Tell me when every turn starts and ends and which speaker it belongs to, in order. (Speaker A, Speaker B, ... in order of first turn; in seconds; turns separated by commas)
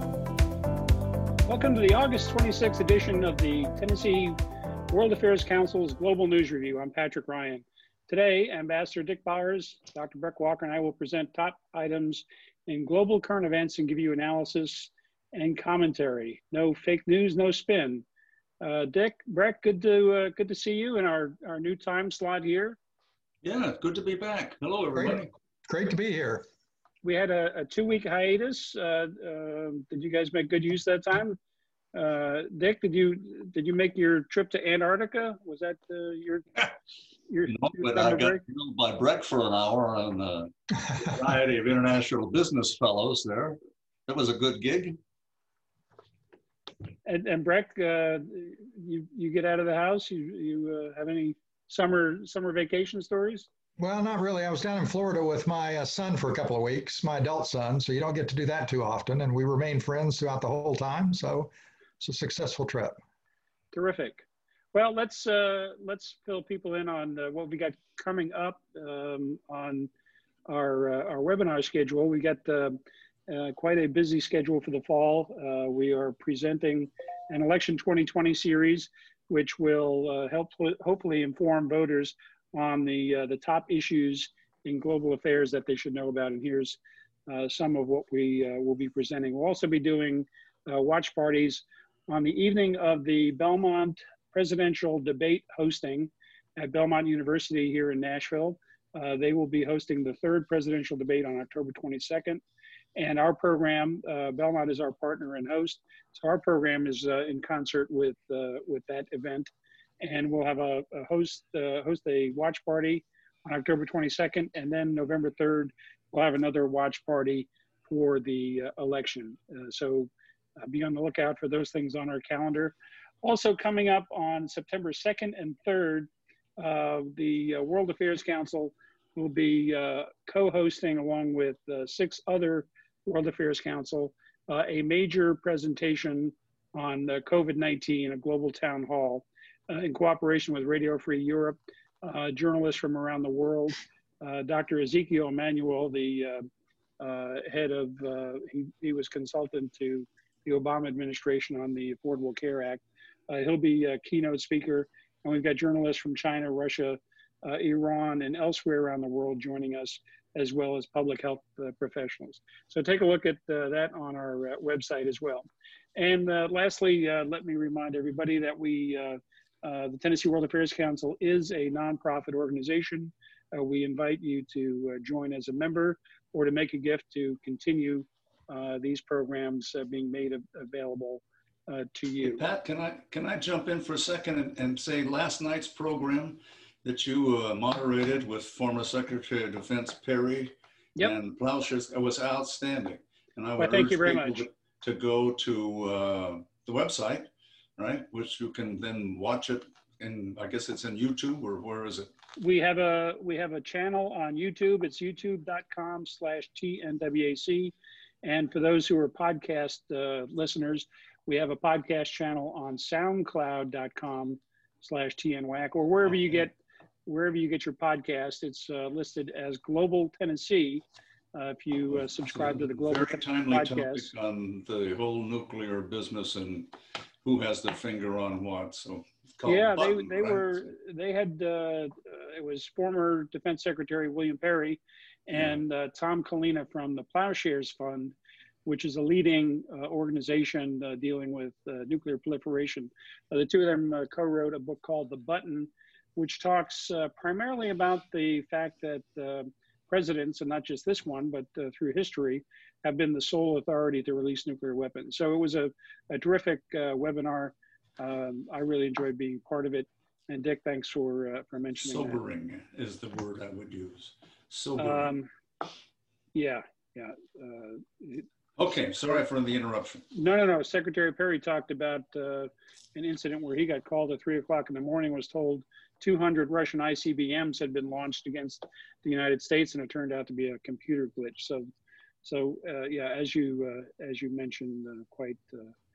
Speaker A: 1.5-4.4, Speaker A: 4.9-18.0, Speaker A: 18.6-22.8, Speaker B: 23.4-25.3, Speaker C: 24.9-26.4, Speaker A: 27.0-31.4, Speaker A: 31.9-36.6, Speaker A: 37.3-38.4, Speaker B: 37.5-45.0, Speaker A: 47.0-53.5, Speaker C: 53.8-63.0, Speaker A: 63.7-69.9, Speaker A: 70.5-102.4, Speaker A: 103.0-146.5, Speaker A: 147.0-182.4, Speaker B: 182.2-202.1, Speaker A: 193.6-194.4, Speaker A: 202.4-224.1, Speaker B: 221.9-226.7, Speaker B: 227.2-230.6, Speaker A: 229.4-238.1, Speaker A: 238.7-262.2, Speaker B: 261.8-265.1, Speaker A: 264.8-265.3, Speaker A: 266.3-268.3, Speaker B: 268.6-270.1, Speaker A: 270.1-281.7, Speaker A: 282.2-285.7